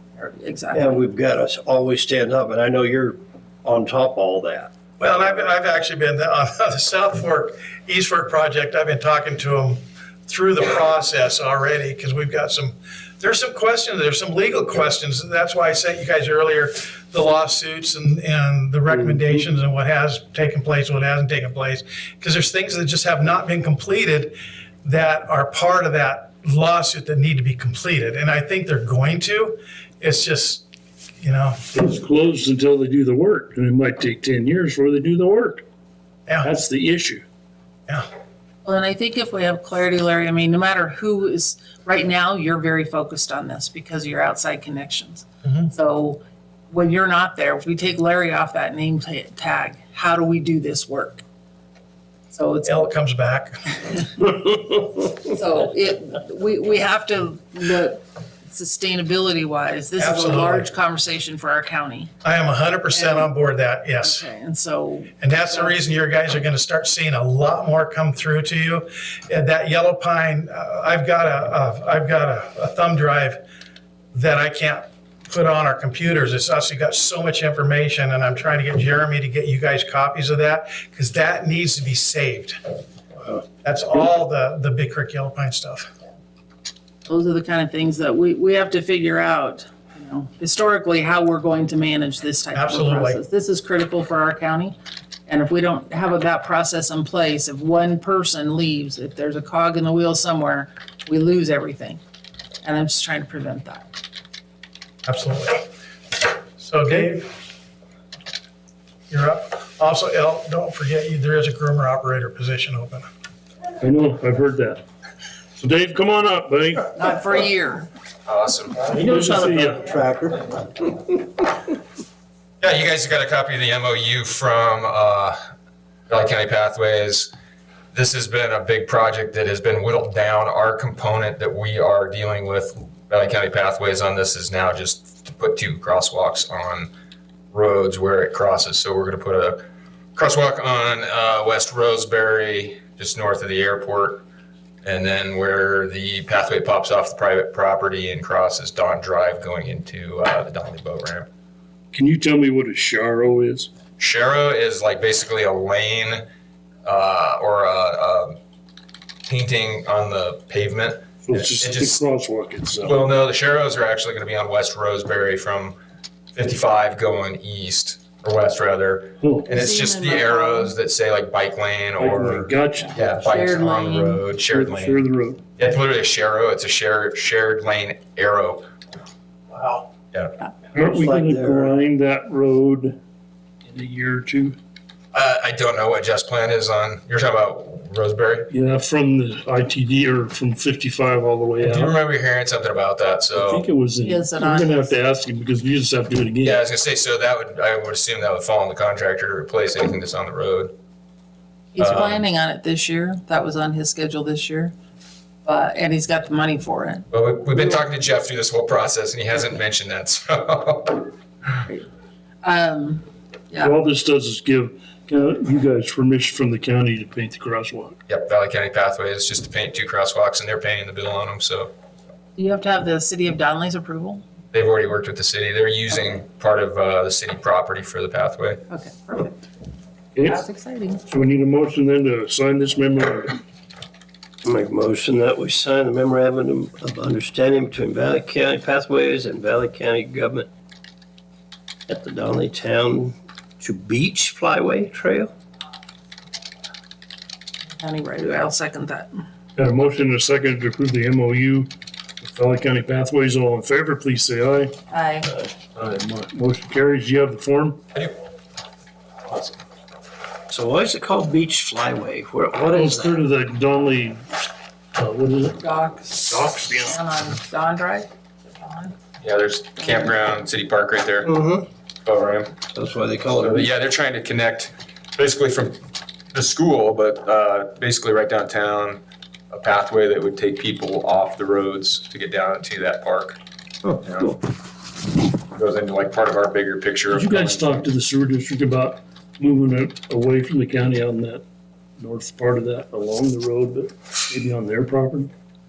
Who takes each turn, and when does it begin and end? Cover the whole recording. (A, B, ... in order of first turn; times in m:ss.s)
0:00.2-0:01.0 A
0:00.7-0:04.7 B
0:05.0-0:30.6 C
0:18.9-0:19.4 D
0:31.2-0:31.6 C
0:31.7-0:35.6 D
0:36.4-0:37.2 D
0:38.6-0:51.2 A
0:45.4-0:45.7 C
0:52.3-0:52.9 A
0:52.6-0:53.8 C
0:55.1-1:02.1 A
1:00.0-1:00.7 C
1:02.2-1:04.3 C
1:02.9-1:03.3 A
1:04.0-1:05.8 A
1:05.2-1:13.4 C
1:14.1-1:22.6 C
1:23.6-1:25.9 C
1:27.1-1:34.8 A
1:32.5-1:33.2 C
1:35.3-1:42.0 A
1:42.6-1:43.9 A
1:45.1-1:45.7 C
1:46.6-1:47.3 C
1:49.1-1:53.1 C
1:53.8-1:54.8 D
1:55.6-1:56.9 D
1:57.0-1:57.9 A
1:58.3-1:58.8 E
1:58.8-1:59.9 D
1:59.1-2:00.9 B
2:02.6-2:05.4 E
2:06.1-2:07.3 E
2:07.9-2:16.9 E
2:17.5-2:19.6 E
2:20.2-2:24.2 E
2:24.8-2:31.3 E
2:31.9-2:33.7 D
2:34.0-2:36.2 E
2:36.8-2:38.4 E
2:39.3-2:42.0 E
2:41.3-2:43.0 D
2:42.8-2:45.8 E
2:46.4-2:55.0 E
2:49.2-2:49.5 D
2:49.5-2:50.7 A
2:52.0-2:53.0 D
2:53.1-2:54.2 A
2:54.5-2:55.4 D
2:55.6-2:58.7 E
2:59.5-2:59.8 C
3:00.7-3:03.0 D
3:00.8-3:01.8 B
3:03.6-3:04.6 D
3:05.1-3:08.5 E
3:08.5-3:11.9 D
3:11.6-3:13.6 E
3:13.3-3:16.6 D
3:14.0-3:14.9 A
3:16.4-3:20.7 E
3:21.7-3:24.7 A
3:21.8-3:22.2 E
3:25.4-3:27.1 A
3:27.1-3:31.1 E
3:32.4-3:33.8 A
3:33.6-3:38.0 D
3:38.1-3:41.7 E
3:42.4-3:44.2 A
3:44.5-3:48.6 E
3:48.7-3:49.5 A
3:50.2-3:50.4 D
3:50.2-3:51.0 A
3:51.1-3:53.4 D
3:54.4-4:00.5 B
4:01.9-4:05.3 B
4:07.8-4:09.2 A
4:09.6-4:14.7 D
4:14.9-4:15.4 A
4:15.8-4:17.8 D
4:19.3-4:19.6 E
4:20.5-4:23.2 B
4:22.7-4:24.2 D
4:25.0-4:25.6 D
4:25.6-4:26.3 A
4:26.3-4:27.0 D
4:26.8-4:29.0 A
4:29.2-4:31.3 E
4:31.2-4:31.7 B
4:32.0-4:32.6 E
4:32.7-4:33.7 B
4:33.4-4:44.4 E
4:45.5-4:47.8 E
4:47.1-4:51.4 D
4:52.0-4:55.3 D